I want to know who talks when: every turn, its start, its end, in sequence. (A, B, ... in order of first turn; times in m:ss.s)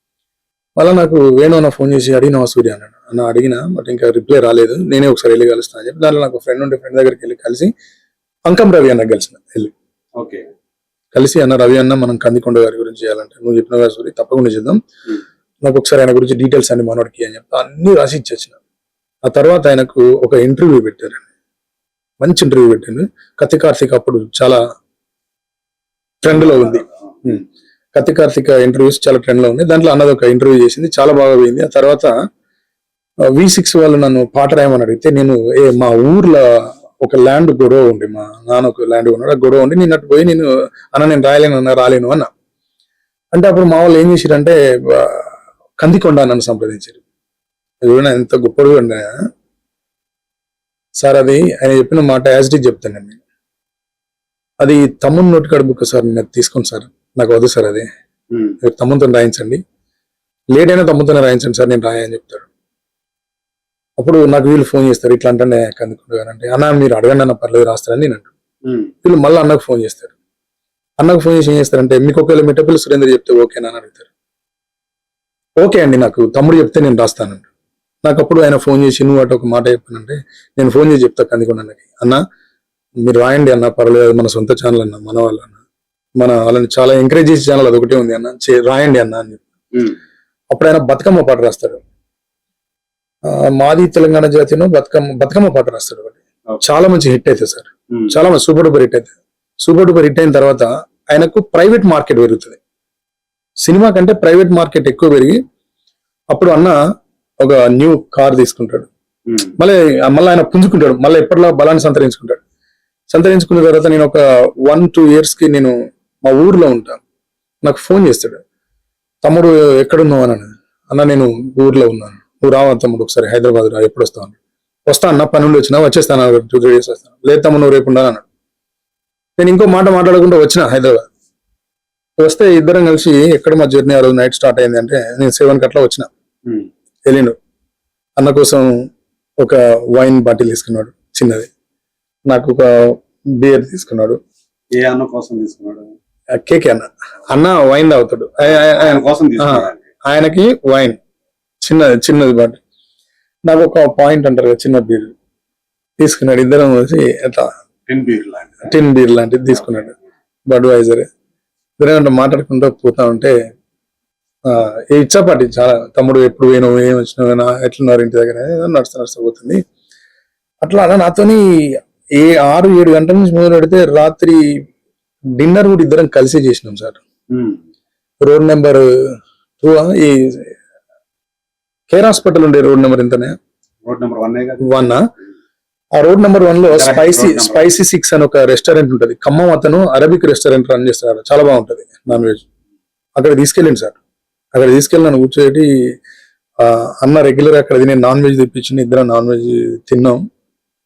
0:00.8-0:07.7 A
0:08.5-0:09.7 A
0:10.2-0:10.4 B
0:11.1-0:14.8 A
0:15.6-0:18.6 A
0:19.2-0:21.3 A
0:22.2-0:24.6 A
0:26.2-0:27.4 A
0:26.3-0:27.4 B
0:27.9-0:32.1 A
0:33.3-0:42.3 A
0:43.3-0:47.0 A
0:47.8-0:49.1 A
0:51.0-0:53.2 A
0:54.6-0:57.9 A
0:58.3-0:58.6 B
0:58.6-0:59.6 A
1:00.5-1:02.5 A
1:04.0-1:08.3 A
1:08.7-1:08.9 B
1:09.0-1:10.1 A
1:11.0-1:14.1 A
1:15.6-1:17.4 A
1:18.0-1:22.2 A
1:23.0-1:25.6 A
1:26.2-1:29.4 A
1:29.7-1:30.0 B
1:30.5-1:31.8 A
1:33.3-1:42.6 A
1:37.9-1:38.2 B
1:43.6-1:45.4 A
1:46.3-1:46.8 A
1:47.4-1:48.9 A
1:49.3-1:49.6 B
1:49.6-1:52.4 A
1:53.1-1:57.0 A
1:57.6-1:58.4 A
1:59.2-2:04.3 A
2:04.8-2:08.2 A
2:09.4-2:11.0 A
2:12.2-2:16.1 A
2:17.0-2:17.4 A
2:18.2-2:18.8 A
2:19.4-2:21.5 A
2:22.3-2:24.2 A
2:24.8-2:25.9 B
2:26.3-2:31.0 A
2:28.4-2:29.9 B
2:31.6-2:32.6 A
2:33.5-2:35.1 A
2:36.0-2:37.5 A
2:37.9-2:38.7 B
2:38.6-2:39.9 A
2:40.5-2:41.0 A
2:41.8-2:43.3 A
2:44.4-2:49.6 A
2:50.6-2:54.4 A
2:55.4-2:57.0 A
2:57.3-2:57.6 B
2:58.2-3:00.6 A
3:01.9-3:03.3 A
3:03.8-3:04.7 B
3:04.6-3:05.0 A
3:05.9-3:12.4 A
3:06.6-3:07.7 B
3:13.2-3:14.0 A
3:14.5-3:15.7 A
3:16.6-3:20.2 A